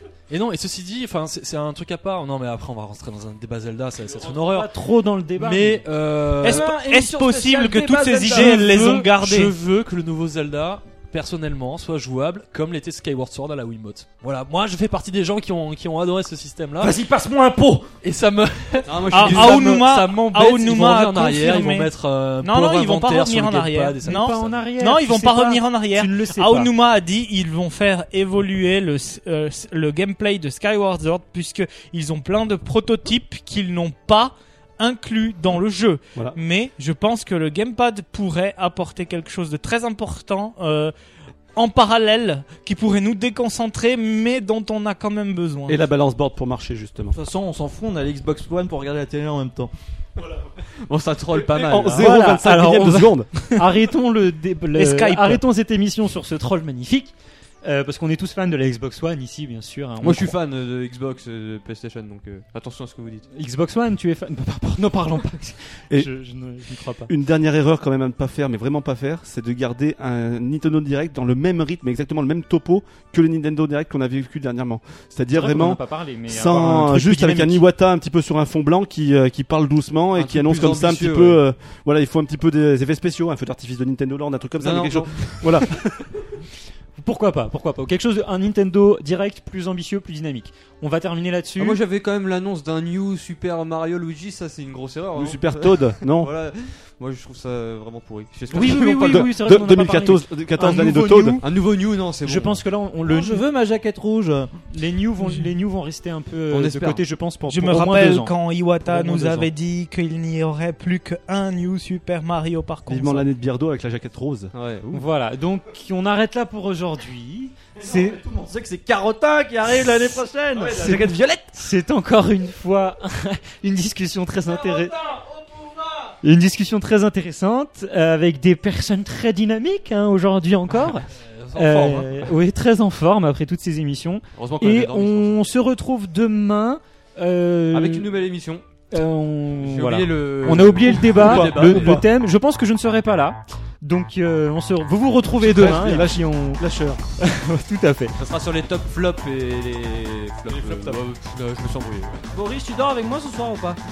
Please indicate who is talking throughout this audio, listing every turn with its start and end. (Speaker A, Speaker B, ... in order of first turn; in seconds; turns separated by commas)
Speaker A: 0.3-4.7, Speaker B: 4.2-5.8, Speaker A: 5.4-6.7, Speaker C: 6.4-8.7, Speaker D: 6.4-9.5, Speaker A: 8.2-17.0, Speaker C: 16.8-17.9, Speaker A: 18.0-24.6, Speaker E: 18.9-19.5, Speaker D: 19.1-40.9, Speaker B: 24.1-26.7, Speaker D: 41.6-45.8, Speaker F: 45.7-47.1, Speaker C: 47.1-49.7, Speaker E: 50.2-52.1, Speaker F: 51.4-53.6, Speaker B: 52.0-60.4, Speaker D: 54.8-55.4, Speaker E: 60.0-63.3, Speaker B: 63.3-67.1, Speaker F: 67.1-85.7, Speaker B: 75.3-77.7, Speaker E: 80.1-81.4, Speaker E: 84.6-86.0, Speaker B: 87.0-91.8, Speaker E: 91.6-99.3, Speaker F: 95.2-96.3, Speaker B: 98.5-101.5, Speaker F: 98.5-101.4, Speaker E: 101.4-102.6, Speaker B: 102.2-103.4, Speaker C: 103.0-104.5, Speaker B: 104.7-109.5, Speaker E: 106.5-107.0, Speaker D: 107.5-113.3, Speaker F: 112.9-114.5, Speaker E: 114.5-115.0, Speaker B: 114.9-118.2, Speaker C: 117.8-121.6, Speaker B: 120.7-125.0, Speaker C: 124.5-126.1, Speaker B: 126.2-138.1, Speaker A: 131.1-132.3, Speaker E: 134.3-135.4, Speaker E: 137.7-138.7, Speaker B: 138.9-146.6, Speaker E: 139.6-142.0, Speaker F: 140.7-142.1, Speaker F: 145.3-147.0, Speaker B: 147.2-148.1, Speaker E: 148.2-152.3, Speaker F: 150.5-151.1, Speaker C: 152.3-153.8